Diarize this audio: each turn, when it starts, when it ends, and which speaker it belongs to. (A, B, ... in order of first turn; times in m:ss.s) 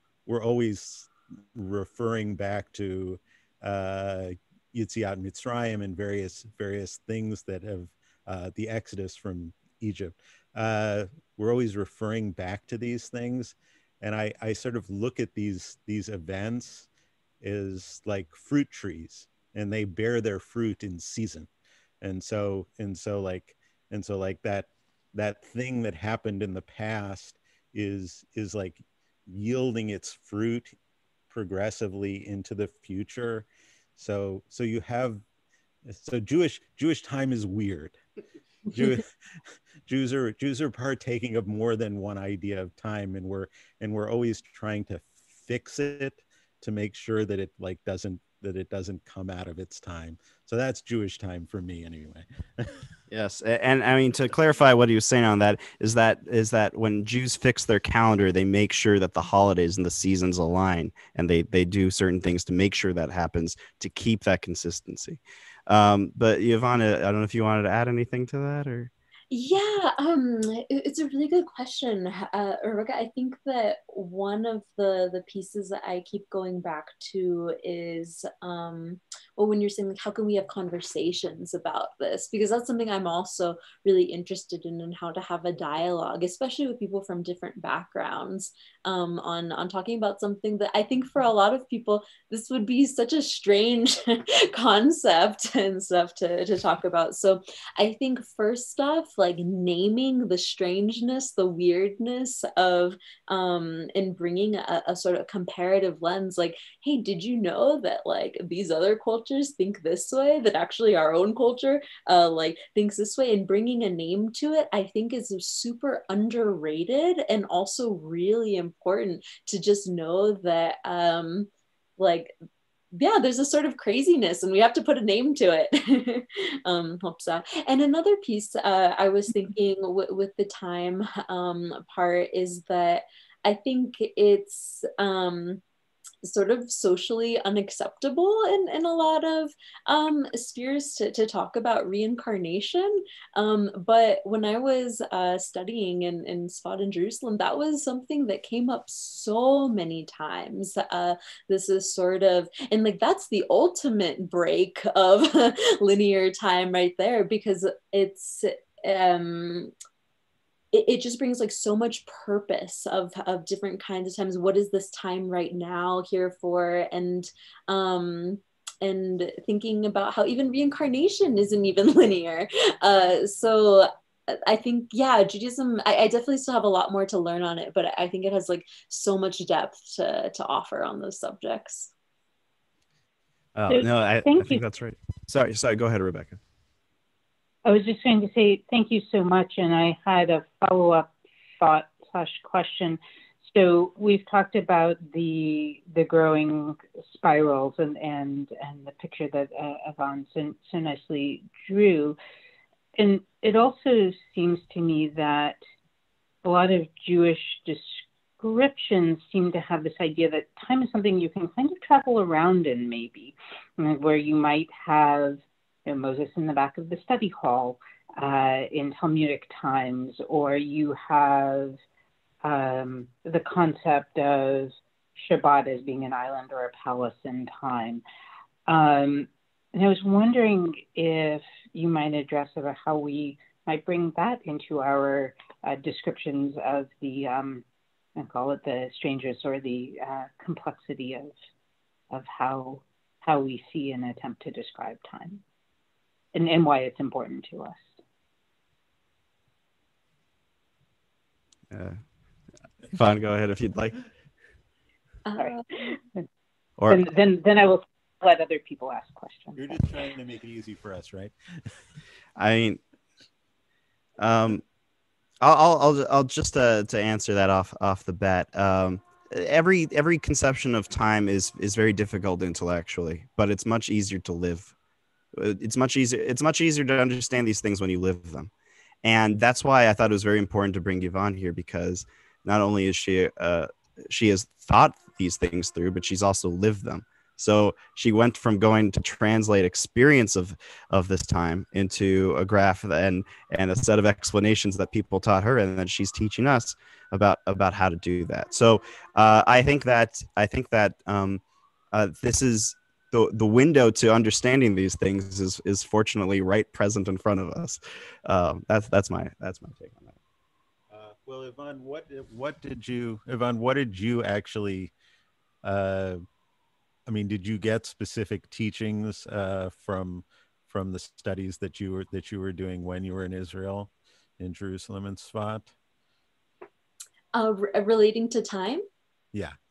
0:00.3-0:16.9 A
0:17.4-0:21.5 A
0:22.0-0:30.7 A
0:31.3-0:35.2 A
0:35.9-0:38.0 A
0:38.7-0:39.1 A
0:39.9-0:52.8 A
0:53.1-1:08.9 B
1:09.3-2:02.3 C
2:02.9-2:15.6 C
2:16.2-2:39.7 C
2:40.7-3:01.9 C
3:03.6-3:06.4 B
3:03.7-3:04.6 D
3:07.6-3:11.1 D
3:11.6-3:22.2 D
3:23.0-3:25.6 D
3:26.4-3:41.8 D
3:42.4-3:48.0 D
3:48.7-3:57.6 D
3:58.2-4:01.4 D
4:02.1-4:05.4 D
4:06.3-4:08.0 D
4:11.7-4:12.0 B
4:12.9-4:14.0 B
4:15.3-4:15.6 C
4:15.4-4:16.2 D
4:16.9-4:20.1 D
4:19.6-4:21.3 A
4:22.4-4:22.8 B
4:24.2-4:24.6 B
4:25.4-4:34.7 B
4:35.4-4:38.5 B
4:39.0-5:10.2 B
5:10.9-5:14.9 A
5:15.6-5:16.2 A
5:17.1-5:25.7 A
5:27.3-5:28.8 C